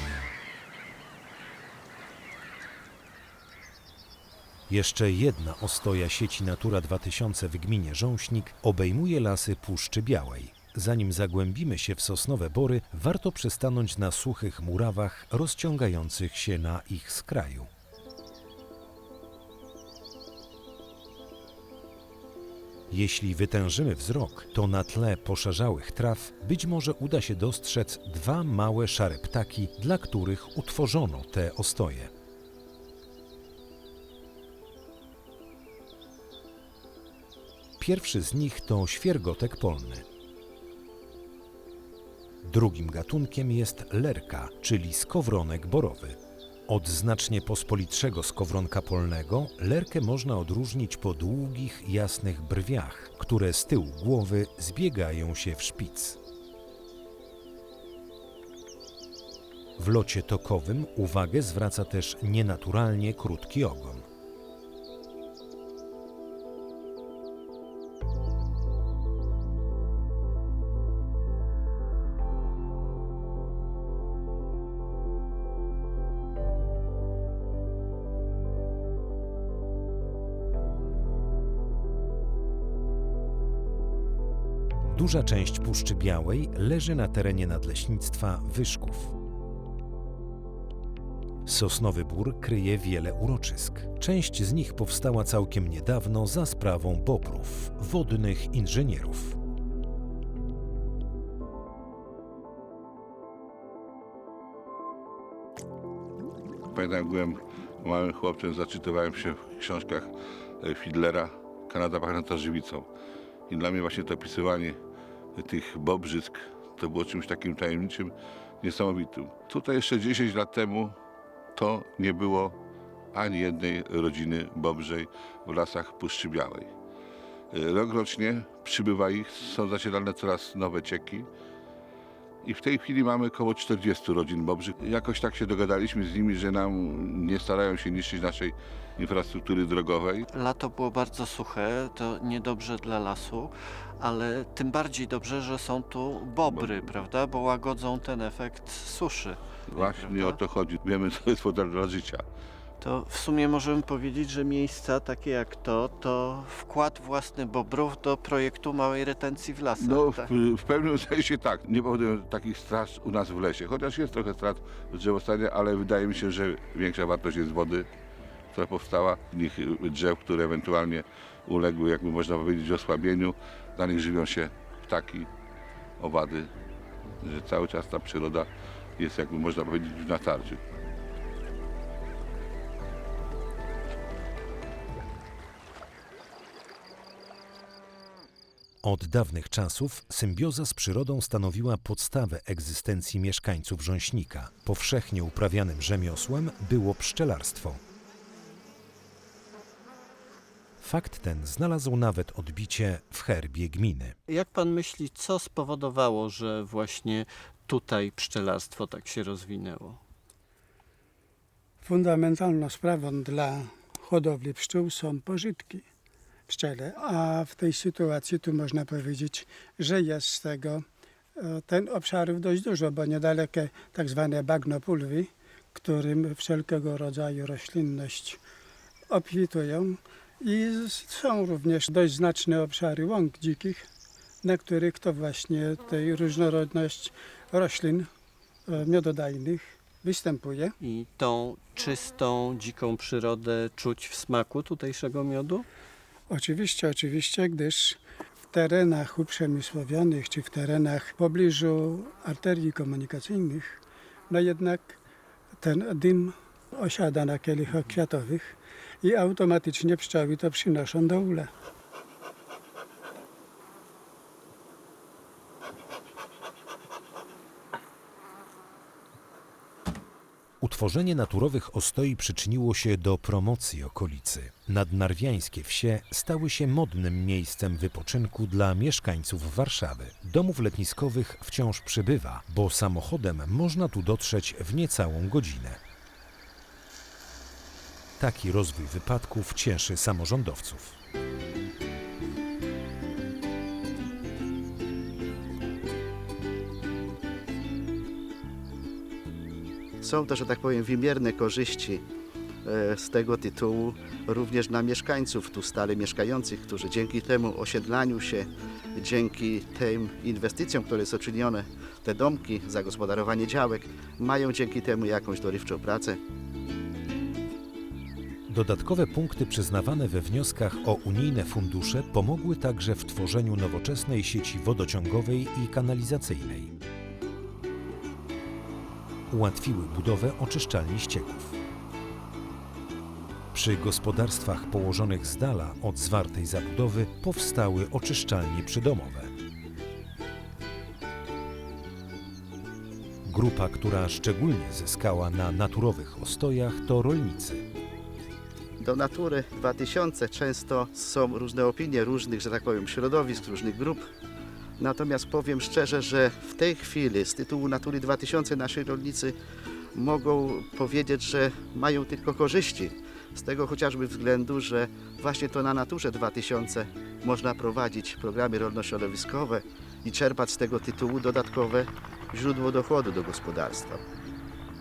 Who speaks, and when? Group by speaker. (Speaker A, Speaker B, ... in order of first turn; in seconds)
Speaker A: 4.7-17.7, 22.9-32.1, 37.8-40.0, 42.4-56.2, 59.8-64.0, 84.9-89.1, 91.4-99.4, 188.8-197.8, 200.8-204.1, 270.6-285.8, 288.2-291.0, 318.5-326.7, 329.3-331.6, 333.5-339.3, 343.2-347.7
Speaker B: 106.7-110.1, 110.6-112.8, 113.5-114.8, 115.3-120.9, 121.5-122.5, 123.1-126.7, 127.5-131.3, 132.4-140.2, 149.7-152.2, 159.8-167.8, 168.5-175.3, 176.0-176.5, 177.2-178.5, 179.0-180.6
Speaker C: 140.3-150.4, 152.8-160.3, 204.3-210.0, 240.8-245.7
Speaker D: 211.8-215.8, 216.5-220.8, 221.4-228.4, 229.1-233.9, 234.4-238.1, 238.7-240.8, 246.3-248.0, 248.5-255.0, 255.6-261.5
Speaker E: 300.0-302.0, 302.6-316.2, 348.8-354.0, 354.8-359.3, 359.9-374.0